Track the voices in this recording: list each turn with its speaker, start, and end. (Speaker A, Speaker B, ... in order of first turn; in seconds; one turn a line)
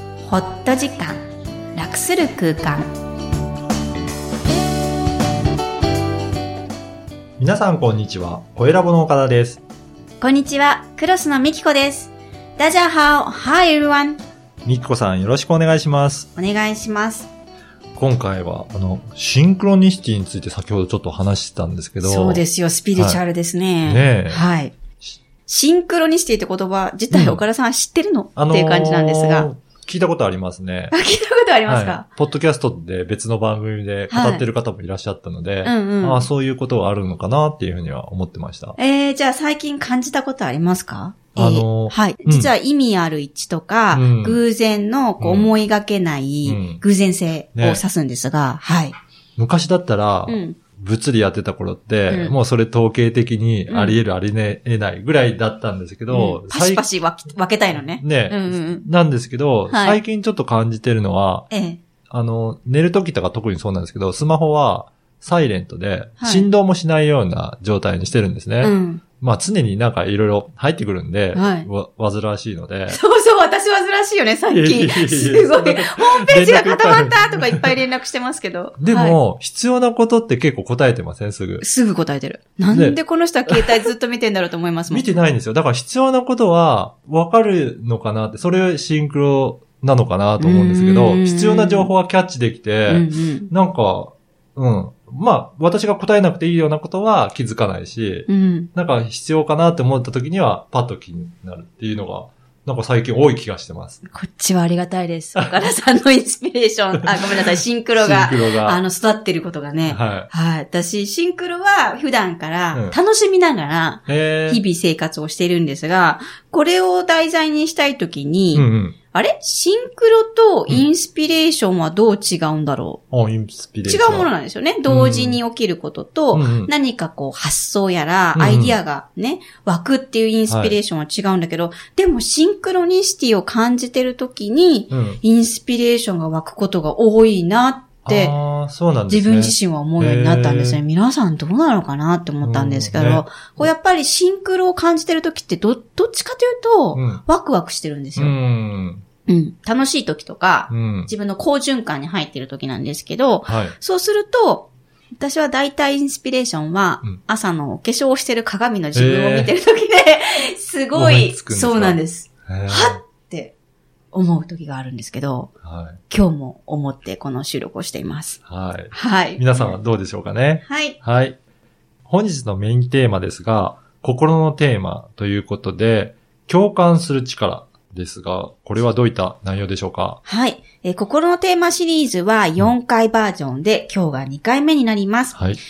Speaker A: 0.2-1.2
Speaker A: 1.8-2.9
Speaker B: 7.4-9.6
Speaker A: 10.2-14.2
Speaker B: 14.7-16.3
Speaker A: 16.4-17.3
Speaker B: 18.0-22.4
Speaker A: 22.0-24.8
Speaker B: 23.9-24.4
Speaker A: 25.5-29.5
Speaker B: 27.1-27.4
Speaker B: 28.4-30.9
Speaker A: 30.9-32.0
Speaker B: 31.7-38.8
Speaker A: 34.1-34.4
Speaker A: 35.6-36.3
Speaker A: 38.8-49.0
Speaker B: 41.4-42.5
Speaker B: 43.9-44.4
Speaker B: 45.2-45.5
Speaker B: 46.5-46.8
Speaker B: 47.6-47.8
Speaker B: 49.4-56.9
Speaker A: 50.3-50.6
Speaker A: 52.1-52.4
Speaker A: 53.7-54.0
Speaker A: 56.1-58.9
Speaker B: 57.8-61.5
Speaker A: 59.7-60.0
Speaker A: 61.5-61.8
Speaker B: 62.1-73.0
Speaker A: 66.2-66.5
Speaker A: 68.6-69.0
Speaker A: 71.3-71.7
Speaker A: 72.9-79.2
Speaker B: 74.5-77.8
Speaker B: 78.8-81.7
Speaker A: 81.6-85.1
Speaker B: 82.7-83.9
Speaker B: 84.9-104.0
Speaker A: 90.4-91.9
Speaker A: 92.9-93.5
Speaker A: 98.3-98.7
Speaker A: 104.1-123.0
Speaker B: 108.0-108.8
Speaker B: 109.9-110.3
Speaker B: 112.7-113.0
Speaker B: 114.1-114.6
Speaker B: 118.5-119.0
Speaker B: 123.1-124.3
Speaker A: 123.8-138.3
Speaker B: 124.9-125.4
Speaker B: 126.3-126.7
Speaker B: 128.3-128.8
Speaker B: 130.5-130.8
Speaker B: 134.9-135.2
Speaker B: 138.1-140.8
Speaker A: 139.1-148.4
Speaker B: 142.4-143.7
Speaker B: 146.9-147.2
Speaker B: 148.2-149.0
Speaker A: 149.3-163.5
Speaker B: 150.7-151.1
Speaker B: 153.5-153.8
Speaker B: 158.9-159.5
Speaker B: 160.9-163.0
Speaker A: 164.1-165.5
Speaker B: 165.6-166.0
Speaker A: 166.1-168.4
Speaker B: 168.5-171.4
Speaker A: 168.9-169.7
Speaker A: 170.7-171.0
Speaker B: 172.1-180.2
Speaker A: 180.2-185.4